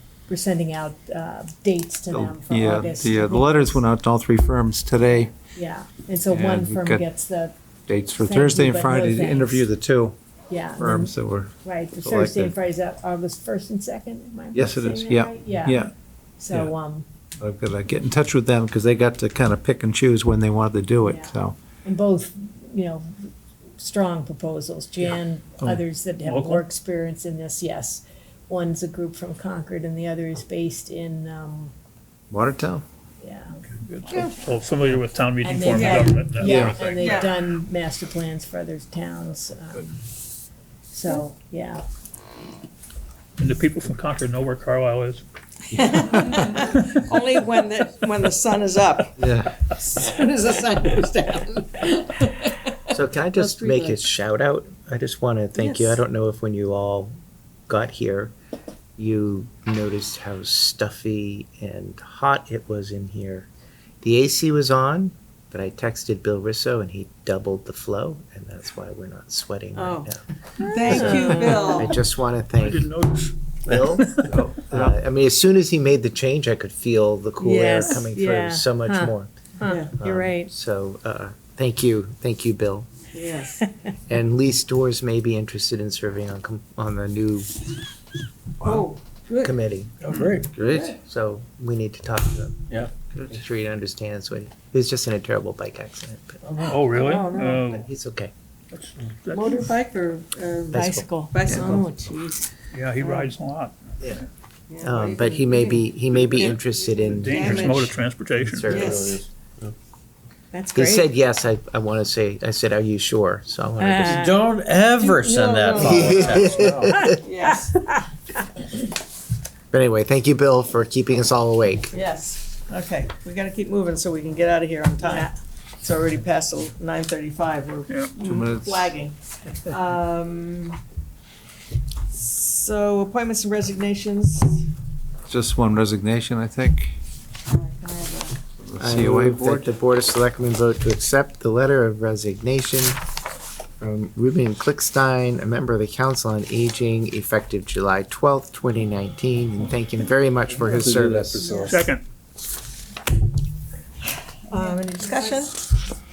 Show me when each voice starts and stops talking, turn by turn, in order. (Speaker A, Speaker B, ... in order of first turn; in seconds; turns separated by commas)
Speaker A: 0.3-3.8, Speaker B: 2.1-5.3, Speaker A: 5.5-7.5, Speaker B: 6.3-7.0, Speaker B: 7.9-10.2, Speaker A: 8.2-9.7, Speaker A: 10.5-17.1, Speaker B: 10.8-12.5, Speaker B: 14.5-15.9, Speaker B: 17.4-21.6, Speaker A: 21.0-31.7, Speaker C: 26.2-26.7, Speaker B: 32.3-32.8, Speaker A: 33.2-33.5, Speaker C: 33.9-37.1, Speaker A: 35.4-40.0, Speaker D: 35.7-36.1, Speaker B: 36.4-36.8, Speaker D: 36.8-37.3, Speaker A: 40.9-41.8, Speaker C: 43.4-45.2, Speaker D: 45.7-52.6, Speaker B: 49.2-49.5, Speaker E: 52.9-57.1, Speaker D: 53.4-54.0, Speaker D: 55.6-56.0, Speaker E: 57.7-58.3, Speaker E: 59.0-63.5, Speaker E: 64.0-70.2, Speaker D: 69.8-72.0, Speaker A: 70.6-71.5, Speaker E: 70.8-72.9, Speaker C: 72.6-74.2, Speaker E: 73.6-79.3, Speaker B: 74.2-74.8, Speaker D: 77.4-77.9, Speaker A: 77.5-80.5, Speaker D: 79.6-79.9, Speaker E: 80.0-82.9, Speaker D: 83.1-83.6, Speaker E: 84.1-87.6, Speaker D: 88.6-89.5, Speaker E: 89.4-89.9, Speaker F: 90.0-90.8, Speaker C: 90.0-90.4, Speaker B: 90.5-90.9, Speaker E: 90.9-96.4, Speaker C: 96.7-97.9, Speaker D: 96.9-97.6, Speaker E: 97.6-98.3, Speaker C: 98.7-99.7, Speaker D: 99.3-101.9, Speaker E: 100.7-101.0, Speaker A: 100.7-102.4, Speaker C: 102.7-104.2, Speaker D: 104.7-108.0, Speaker E: 104.8-107.9, Speaker C: 107.2-108.8, Speaker E: 108.4-109.2, Speaker D: 108.7-109.2, Speaker F: 108.7-109.7, Speaker A: 110.5-111.0, Speaker E: 110.7-114.3, Speaker A: 113.8-114.5, Speaker F: 114.0-117.1, Speaker D: 115.0-116.5, Speaker E: 115.8-117.1, Speaker A: 116.9-118.1, Speaker D: 117.1-117.7, Speaker E: 119.7-121.9, Speaker D: 121.9-130.8, Speaker A: 125.0-125.3, Speaker C: 127.9-128.1, Speaker B: 128.2-128.9, Speaker D: 132.1-134.7, Speaker B: 135.3-136.9, Speaker D: 137.5-138.4, Speaker B: 138.6-139.7, Speaker E: 138.8-143.0, Speaker E: 143.8-151.4, Speaker B: 150.7-151.5, Speaker F: 150.8-151.8, Speaker D: 151.4-151.8, Speaker C: 151.6-152.0, Speaker D: 154.5-155.7, Speaker A: 154.5-155.3